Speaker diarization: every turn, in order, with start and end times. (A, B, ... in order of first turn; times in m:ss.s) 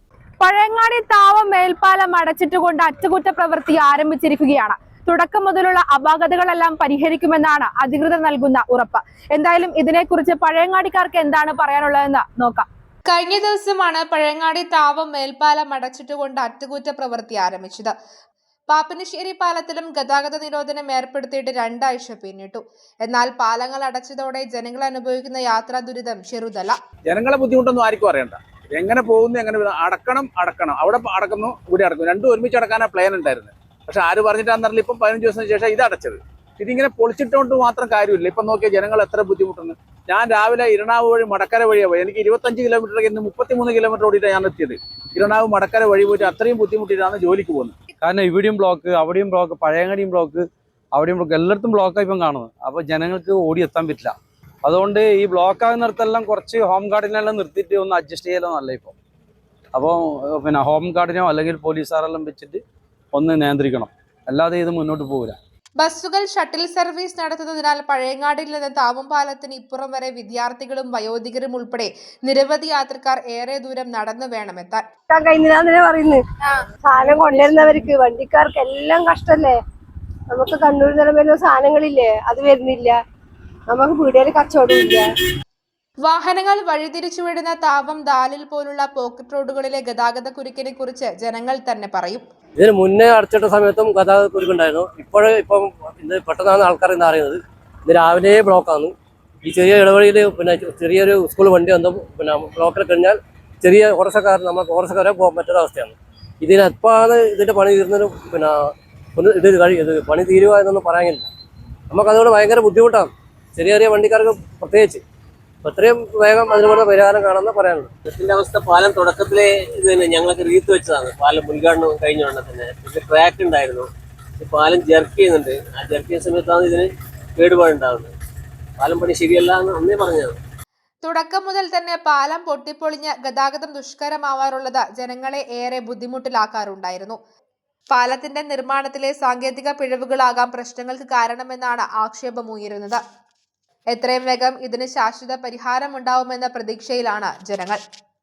0:00.4-0:12.6 A
0:13.1-0:17.9 B
0:18.7-0:26.8 B
0:27.1-0:47.7 C
0:48.0-0:58.9 D
0:59.7-1:02.6 D
1:03.1-1:05.4 D
1:05.8-1:14.8 B
1:15.1-1:16.2 E
1:16.8-1:19.6 E
1:20.3-1:23.0 E
1:23.7-1:25.1 E
1:26.0-1:32.2 B
1:32.6-1:51.3 F
1:51.9-1:55.0 F
1:55.6-1:57.9 F
1:58.0-2:03.9 G
2:04.4-2:08.1 G
2:08.8-2:10.3 G
2:11.0-2:17.2 B
2:17.9-2:23.0 B
2:23.9-2:27.8 B